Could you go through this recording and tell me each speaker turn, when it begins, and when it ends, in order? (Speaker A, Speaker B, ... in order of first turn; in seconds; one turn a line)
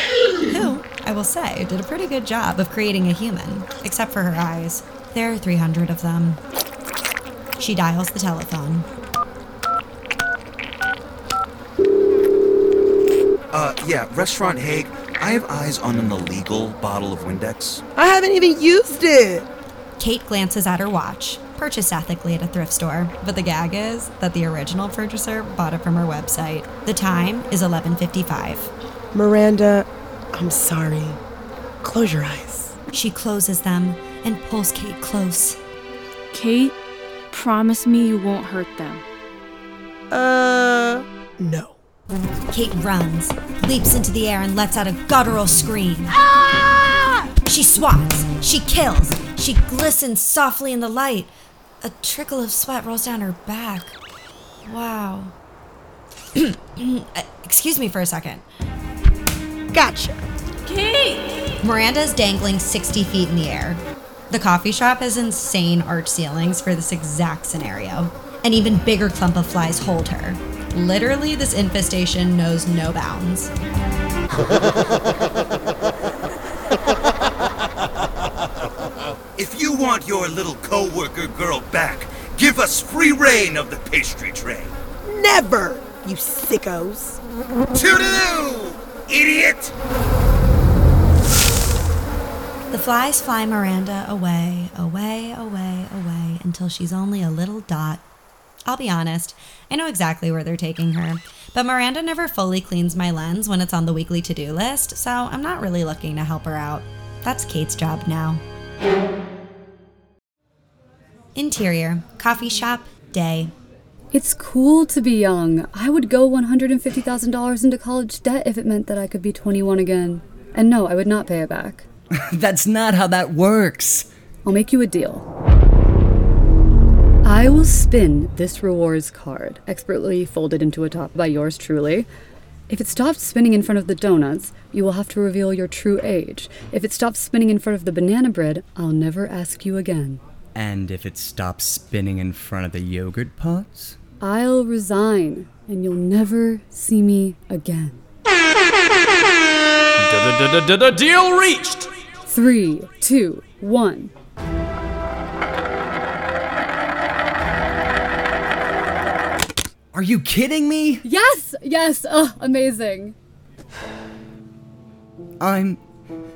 Speaker A: 0.5-6.4
Speaker A: 7.6-8.9
Speaker B: 13.5-17.8
Speaker C: 17.9-19.5
Speaker A: 20.0-28.7
Speaker C: 29.1-31.2
Speaker C: 31.8-32.7
Speaker A: 32.9-35.6
Speaker D: 36.3-36.7
Speaker D: 37.3-39.0
Speaker C: 40.1-41.8
Speaker A: 42.5-46.1
Speaker C: 46.3-47.1
Speaker A: 47.5-54.0
Speaker A: 54.6-55.3
Speaker A: 56.3-58.4
Speaker C: 59.7-60.2
Speaker D: 60.6-61.6
Speaker A: 61.6-73.5
Speaker B: 79.4-84.7
Speaker C: 85.0-87.2
Speaker B: 87.8-89.7
Speaker A: 92.7-98.0
Speaker A: 98.7-108.4
Speaker A: 111.3-113.5
Speaker E: 114.1-121.8
Speaker F: 122.1-124.1
Speaker E: 124.5-125.2
Speaker E: 127.2-132.1
Speaker E: 132.7-140.2
Speaker F: 140.5-143.9
Speaker E: 144.2-148.0
Speaker G: 150.0-151.9
Speaker E: 152.3-154.1
Speaker F: 159.9-161.0
Speaker E: 161.1-163.1
Speaker F: 165.4-165.8